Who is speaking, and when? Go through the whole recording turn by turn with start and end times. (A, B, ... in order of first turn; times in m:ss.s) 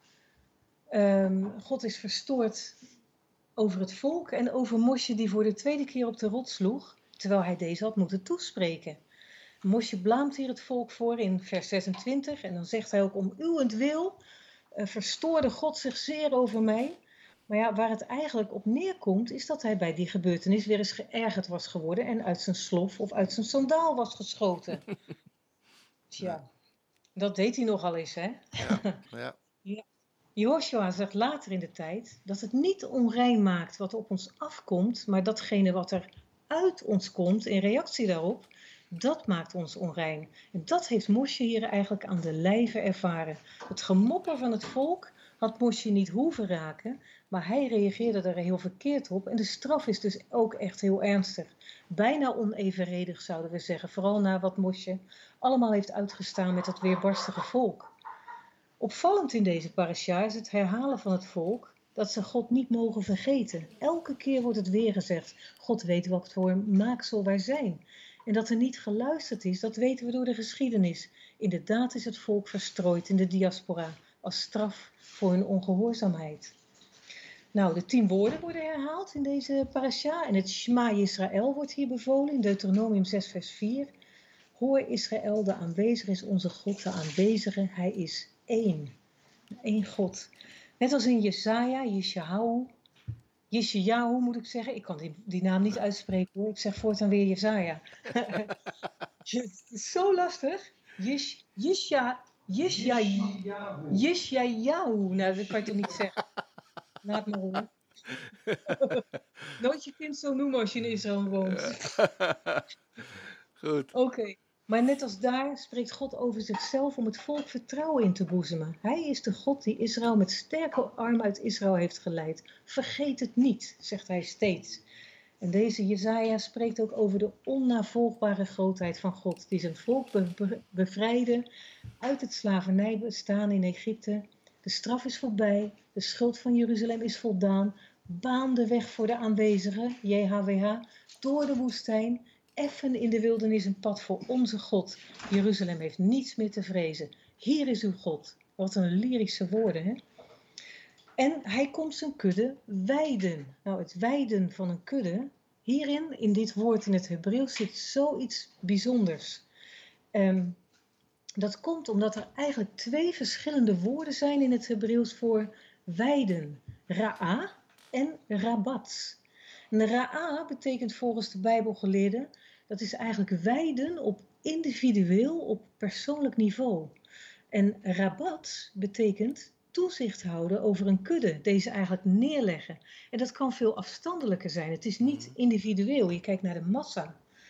0:00.9-0:02.8 A
0:03.6-0:09.0 A
0:09.6-0:14.2 A
0:14.7-0:24.9 A
0:26.1-0:26.5 A
0:27.2-0:29.0 A
0:28.6-0:29.4 B
0:30.4-0:57.9 A
0:58.8-1:16.5 A
1:17.5-1:23.9 A
1:24.6-1:29.0 A
1:29.6-1:32.7 A
1:33.5-1:38.6 A
1:39.2-1:46.2 A
1:47.0-1:47.7 A
1:48.3-1:49.0 B
1:48.7-1:49.0 A
1:49.6-1:51.9 A
1:51.4-1:52.6 B
1:53.6-1:53.9 B
1:53.9-2:04.8 A
2:05.4-2:11.5 A
2:12.0-2:30.0 A
2:31.2-2:39.4 A
2:40.1-2:40.6 A
2:41.4-2:49.2 A
2:49.7-2:56.9 A
2:57.5-3:07.2 A
3:05.0-3:05.3 B